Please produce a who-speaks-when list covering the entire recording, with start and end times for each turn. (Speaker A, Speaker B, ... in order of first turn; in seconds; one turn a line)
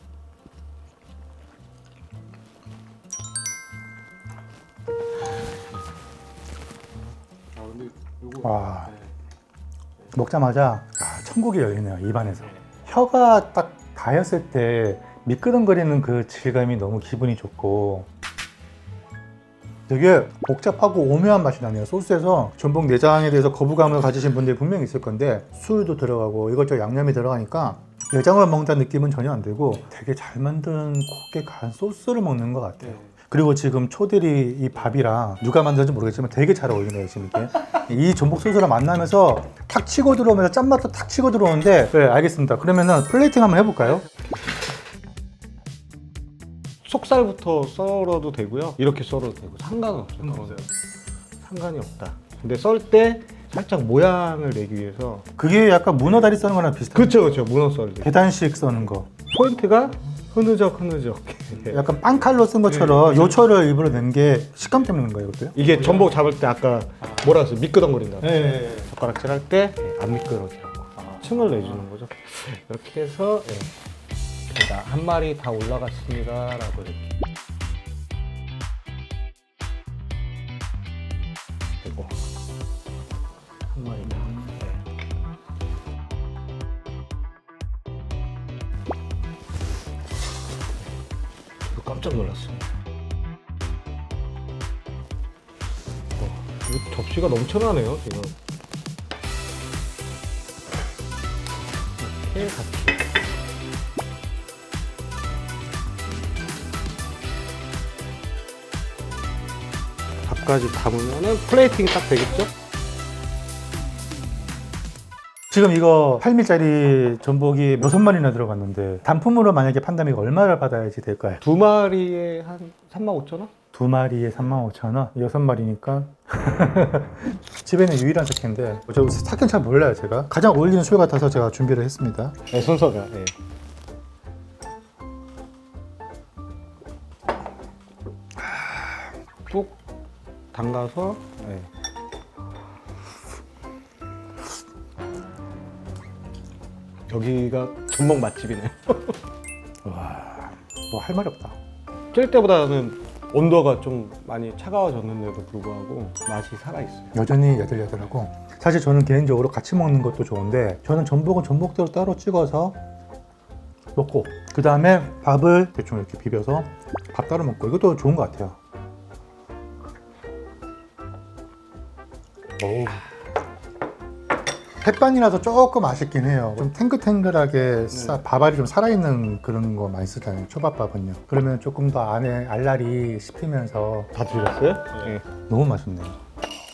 Speaker A: 8.2-9.0
Speaker A: 10.1-18.1
Speaker A: 19.9-44.0
Speaker B: 46.8-50.6
Speaker A: 50.2-50.6
Speaker B: 51.4-55.2
Speaker A: 55.4-57.4
Speaker B: 56.9-58.1
Speaker A: 58.0-59.1
Speaker B: 59.3-61.9
Speaker A: 61.6-65.7
Speaker B: 65.5-73.7
Speaker A: 68.3-68.8
Speaker A: 71.0-71.3
Speaker B: 74.5-77.1
Speaker B: 81.8-82.1
Speaker B: 83.7-84.8
Speaker B: 91.7-92.7
Speaker B: 96.2-98.3
Speaker B: 102.0-103.1
Speaker B: 110.2-112.5
Speaker A: 115.5-121.4
Speaker B: 121.4-123.5
Speaker A: 123.7-132.4
Speaker B: 132.5-133.3
Speaker B: 139.5-139.8
Speaker B: 140.5-141.7
Speaker B: 147.1-149.2
Speaker A: 149.8-151.6
Speaker B: 152.1-157.1
Speaker A: 157.1-162.8
Speaker A: 163.9-168.6
Speaker A: 172.6-173.1
Speaker A: 174.8-184.1
Speaker B: 177.9-178.2
Speaker B: 184.1-185.2
Speaker A: 185.2-186.2